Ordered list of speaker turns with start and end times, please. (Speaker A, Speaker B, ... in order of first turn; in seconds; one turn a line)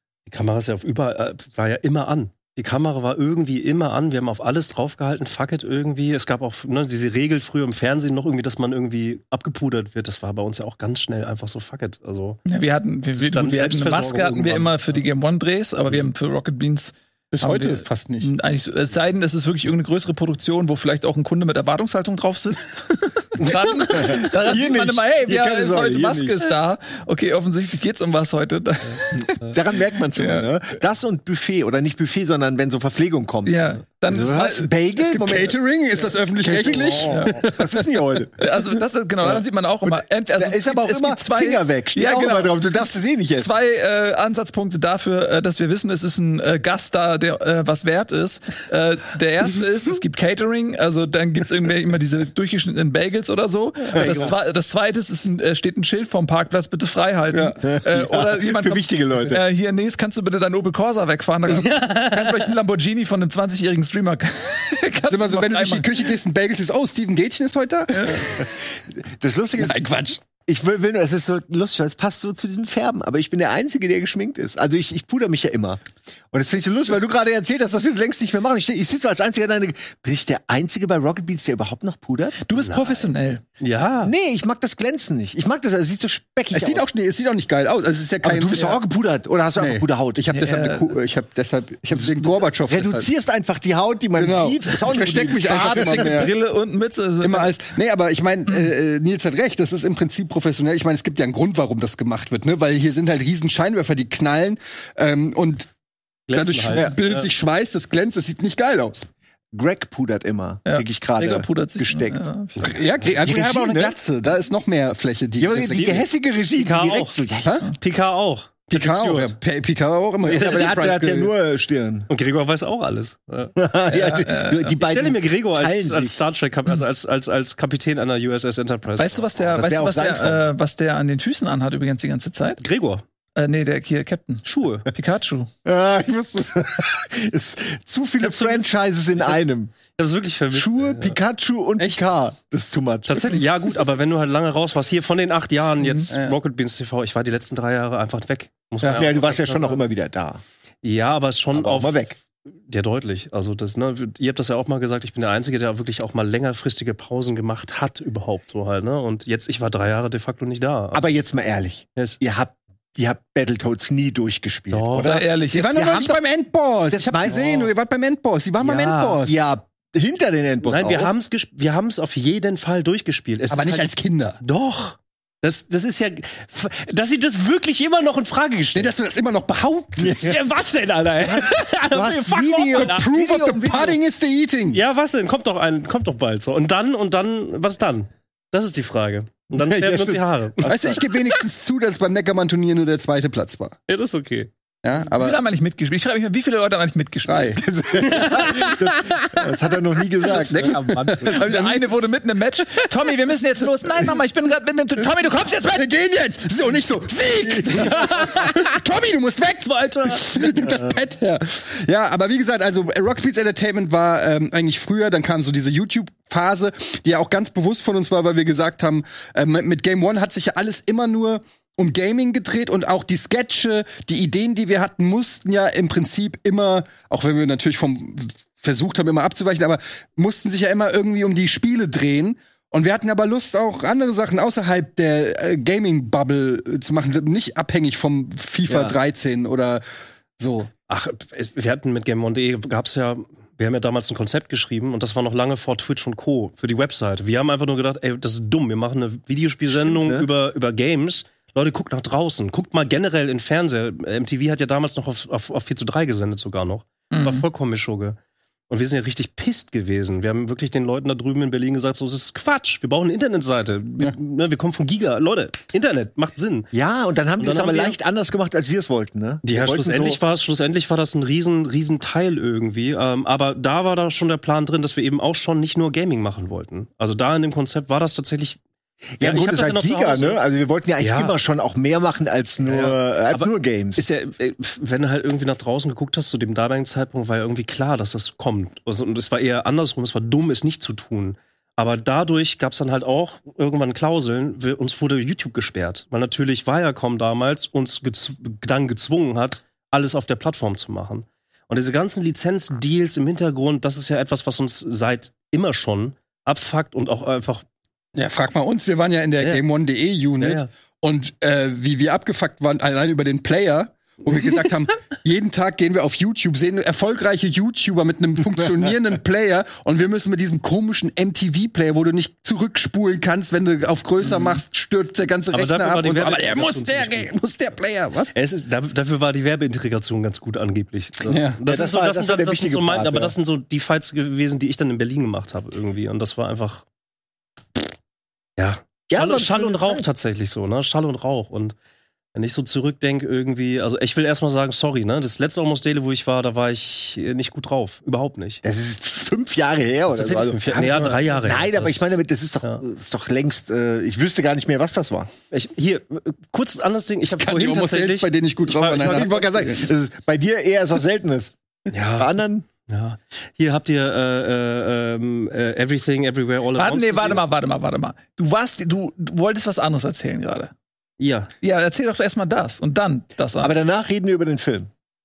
Speaker A: 0.3-12.4
Speaker B: 12.5-30.5
Speaker A: 13.2-15.0
Speaker C: 17.3-18.3
Speaker D: 23.9-26.3
Speaker D: 29.2-33.6
Speaker B: 33.5-35.5
Speaker D: 34.1-35.5
Speaker C: 35.2-38.0
Speaker D: 36.4-38.4
Speaker B: 37.1-37.4
Speaker B: 38.4-65.9
Speaker D: 39.2-43.5
Speaker D: 53.9-54.3
Speaker A: 54.0-54.3
Speaker D: 57.6-59.4
Speaker A: 61.6-62.2
Speaker C: 65.1-68.3
Speaker B: 68.0-68.3
Speaker D: 68.4-69.8
Speaker C: 69.6-70.2
Speaker D: 70.4-82.4
Speaker B: 82.4-83.4
Speaker A: 82.5-83.1
Speaker A: 83.6-84.1
Speaker D: 84.0-86.9
Speaker C: 86.5-88.8
Speaker D: 88.2-90.3
Speaker C: 89.6-93.1
Speaker B: 90.3-91.0
Speaker D: 92.7-96.3
Speaker C: 94.2-96.3
Speaker B: 95.5-97.5
Speaker C: 97.2-105.7
Speaker A: 106.3-107.3
Speaker C: 106.3-109.1
Speaker D: 109.5-112.2
Speaker B: 110.7-112.8
Speaker C: 112.7-116.0
Speaker D: 113.2-114.0
Speaker D: 115.4-117.7
Speaker A: 115.7-117.2
Speaker A: 117.8-119.3
Speaker C: 118.7-121.3
Speaker D: 120.3-122.1
Speaker A: 120.3-120.7
Speaker A: 122.1-124.2
Speaker D: 123.6-126.2
Speaker B: 124.0-124.8
Speaker A: 124.8-129.3
Speaker B: 129.0-132.6
Speaker D: 129.6-130.4
Speaker A: 132.6-133.0
Speaker B: 133.4-135.5
Speaker A: 134.4-134.9
Speaker D: 135.7-139.8
Speaker A: 138.2-139.4
Speaker A: 139.9-141.2
Speaker D: 140.5-143.4
Speaker C: 141.8-142.1
Speaker A: 143.1-149.8
Speaker B: 145.8-146.1
Speaker C: 146.1-146.4
Speaker D: 148.9-150.4
Speaker A: 150.8-152.1
Speaker D: 151.5-152.2
Speaker A: 152.7-161.0
Speaker D: 160.9-166.2
Speaker A: 164.7-165.2
Speaker B: 165.0-165.8
Speaker C: 165.5-169.5
Speaker D: 166.9-167.7
Speaker A: 168.6-169.2
Speaker D: 169.2-171.1
Speaker A: 170.6-173.9
Speaker C: 173.5-174.4
Speaker A: 174.4-178.9
Speaker C: 178.7-180.4
Speaker D: 180.0-180.4
Speaker A: 180.2-183.1
Speaker D: 181.2-184.0
Speaker C: 182.7-184.8
Speaker A: 184.7-190.7
Speaker D: 189.5-191.0
Speaker C: 190.6-193.8
Speaker A: 193.9-194.5
Speaker C: 194.8-195.4
Speaker B: 195.1-197.6
Speaker C: 197.3-197.6
Speaker D: 197.6-200.8
Speaker A: 200.3-201.4
Speaker B: 200.6-205.9
Speaker C: 200.6-202.1
Speaker C: 205.7-239.8
Speaker A: 209.6-210.3
Speaker D: 238.7-238.9
Speaker C: 240.4-240.7
Speaker A: 240.9-258.2
Speaker D: 249.7-250.3
Speaker B: 257.1-257.5
Speaker A: 258.7-266.7
Speaker D: 266.7-270.2
Speaker A: 267.4-268.0
Speaker A: 269.4-278.6
Speaker D: 279.2-284.0
Speaker A: 279.2-280.4
Speaker A: 281.0-281.4
Speaker A: 282.6-307.6
Speaker C: 308.1-328.3
Speaker A: 310.4-310.7
Speaker A: 325.5-327.4
Speaker A: 328.3-336.9
Speaker C: 331.3-331.6
Speaker D: 331.6-333.4
Speaker A: 338.6-341.8
Speaker D: 339.1-340.1
Speaker A: 342.3-348.6
Speaker D: 348.6-355.3
Speaker A: 350.1-352.8
Speaker A: 355.5-359.4
Speaker C: 357.3-359.9
Speaker D: 359.0-361.5
Speaker A: 361.9-362.3
Speaker D: 362.2-362.6
Speaker A: 362.9-367.4
Speaker B: 366.8-370.7
Speaker A: 371.2-371.5
Speaker B: 371.6-373.8
Speaker D: 373.6-374.9